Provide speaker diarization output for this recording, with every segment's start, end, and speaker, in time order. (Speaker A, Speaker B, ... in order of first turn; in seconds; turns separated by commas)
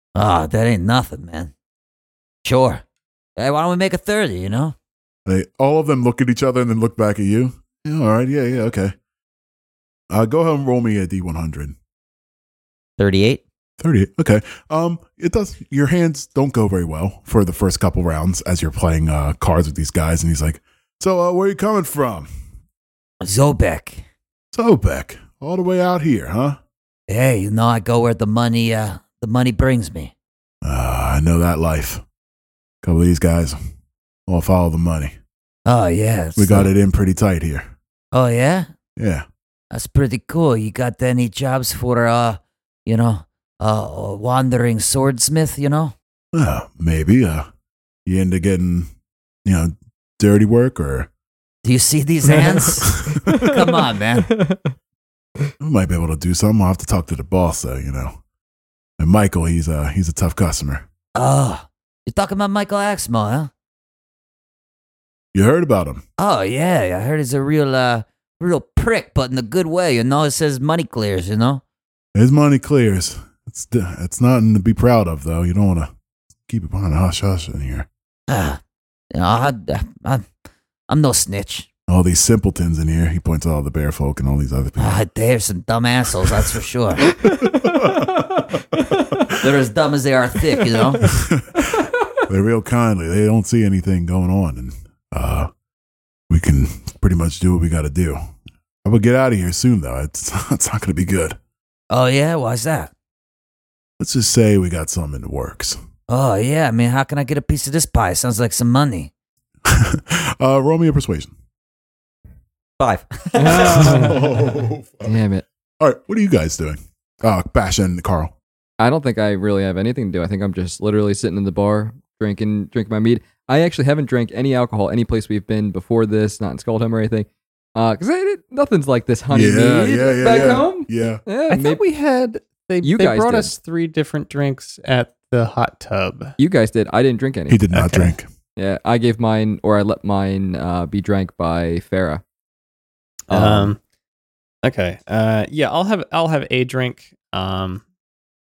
Speaker A: 0.1-1.5, Speaker A: 2.4-2.8, Speaker A: 3.4-4.7, Speaker B: 5.2-8.9, Speaker B: 10.1-11.8, Speaker A: 13.0-13.4, Speaker B: 13.8-22.3, Speaker A: 23.2-24.1, Speaker B: 24.5-26.6, Speaker A: 27.1-30.1, Speaker B: 30.6-32.0, Speaker B: 32.8-33.6, Speaker B: 34.3-35.1, Speaker A: 35.6-36.7, Speaker B: 36.4-37.7, Speaker A: 38.1-38.7, Speaker B: 39.0-39.2, Speaker A: 39.7-45.9, Speaker B: 46.3-47.5, Speaker B: 48.0-48.9, Speaker B: 49.4-51.1, Speaker A: 51.6-54.4, Speaker B: 52.8-53.5, Speaker C: 53.2-53.5, Speaker C: 54.3-54.7, Speaker B: 55.6-58.2, Speaker B: 59.0-60.8, Speaker A: 61.1-63.5, Speaker B: 65.3-66.0, Speaker A: 66.2-71.6, Speaker B: 72.1-75.9, Speaker B: 76.5-77.9, Speaker A: 78.3-78.6, Speaker A: 79.1-80.2, Speaker A: 80.9-81.7, Speaker B: 81.9-85.0, Speaker A: 84.8-87.2, Speaker C: 87.2-89.2, Speaker B: 87.2-89.5, Speaker A: 89.4-91.1, Speaker B: 91.0-95.5, Speaker B: 96.3-98.2, Speaker B: 98.8-101.4, Speaker A: 101.9-102.9, Speaker B: 104.0-105.8, Speaker A: 106.1-109.1, Speaker B: 109.7-111.3, Speaker A: 112.8-114.1, Speaker C: 113.3-114.2, Speaker B: 113.5-115.2, Speaker C: 115.0-115.4, Speaker B: 115.8-118.3, Speaker C: 118.8-131.8, Speaker B: 129.3-131.2, Speaker D: 131.5-136.3, Speaker C: 132.8-133.5, Speaker C: 136.4-137.6, Speaker B: 137.5-138.3, Speaker D: 137.7-138.1, Speaker C: 138.6-142.2, Speaker C: 143.3-143.7, Speaker D: 143.3-143.8, Speaker D: 144.6-147.8